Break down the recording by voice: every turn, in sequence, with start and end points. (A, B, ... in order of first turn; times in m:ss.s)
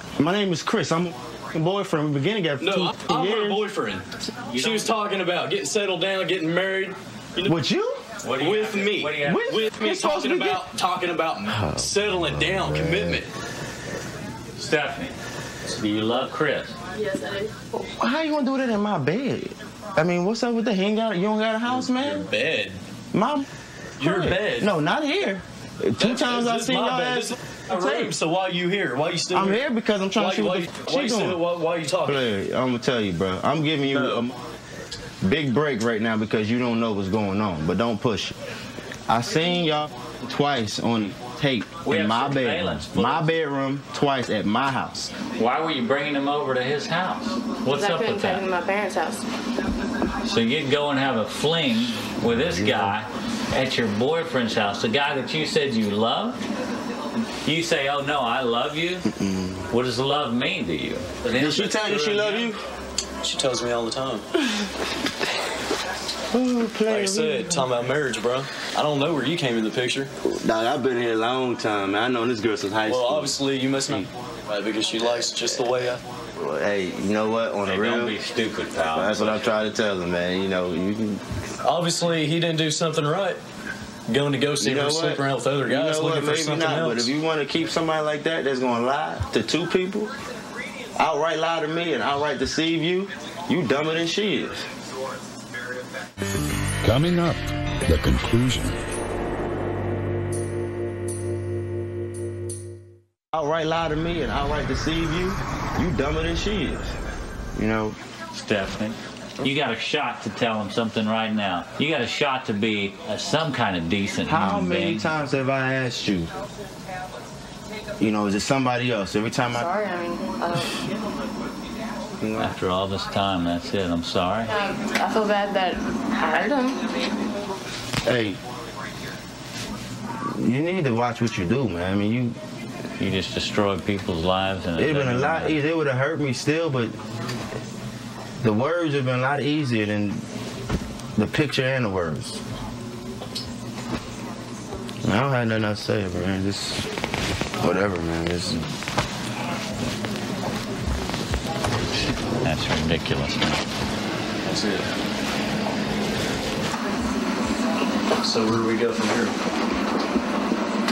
0:00.2-0:03.6 A
0:02.6-0:07.6 B
0:04.5-0:04.9 C
0:07.4-0:08.0 A
0:08.2-0:09.5 C
0:08.4-0:13.3 B
0:09.2-0:10.6 A
0:11.5-0:13.2 A
0:14.6-0:15.2 C
0:15.7-0:16.8 C
0:16.9-0:17.8 D
0:18.0-0:22.3 A
0:21.8-0:22.8 B
0:23.1-0:23.4 A
0:24.0-0:24.7 B
0:24.0-0:28.0 A
0:26.0-0:29.6 B
0:29.3-0:31.4 A
0:30.1-0:32.3 B
0:32.0-0:34.3 A
0:35.2-0:38.4 A
0:39.1-0:45.2 A
0:41.8-0:43.3 C
0:45.3-0:48.4 C
0:47.7-0:49.2 D
0:50.2-0:56.4 C
0:52.3-0:53.0 A
0:57.4-0:59.0 C
0:59.1-0:59.6 A
0:59.7-1:02.4 C
1:01.3-1:02.6 A
1:03.2-1:04.3 B
1:06.3-1:07.5 A
1:06.8-1:10.1 B
1:10.2-1:14.0 A
1:12.8-1:16.0 B
1:16.4-1:18.2 A
1:17.6-1:19.5 C
1:18.8-1:21.2 A
1:21.6-1:23.4 B
1:24.1-1:27.1 B
1:24.6-1:30.1 A
1:31.0-1:34.7 A
1:36.8-1:38.8 E
1:43.3-1:46.9 A
1:47.5-1:48.0 A
1:48.3-1:55.1 C
1:54.2-1:56.3 A
1:58.0-1:59.7 A
1:59.5-2:00.8 D
2:02.2-2:02.6 A
2:02.4-2:04.5 C
2:04.5-2:06.9 D
2:08.0-2:08.4 A
2:10.2-2:12.4 A
2:13.0-2:15.6 C
2:14.8-2:17.0 A
2:18.4-2:20.2 A
2:21.2-2:22.4 A
2:25.0-2:26.9 A
2:27.6-2:28.6 A
2:31.9-2:33.6 C
2:34.4-2:34.9 B
2:38.2-2:39.3 B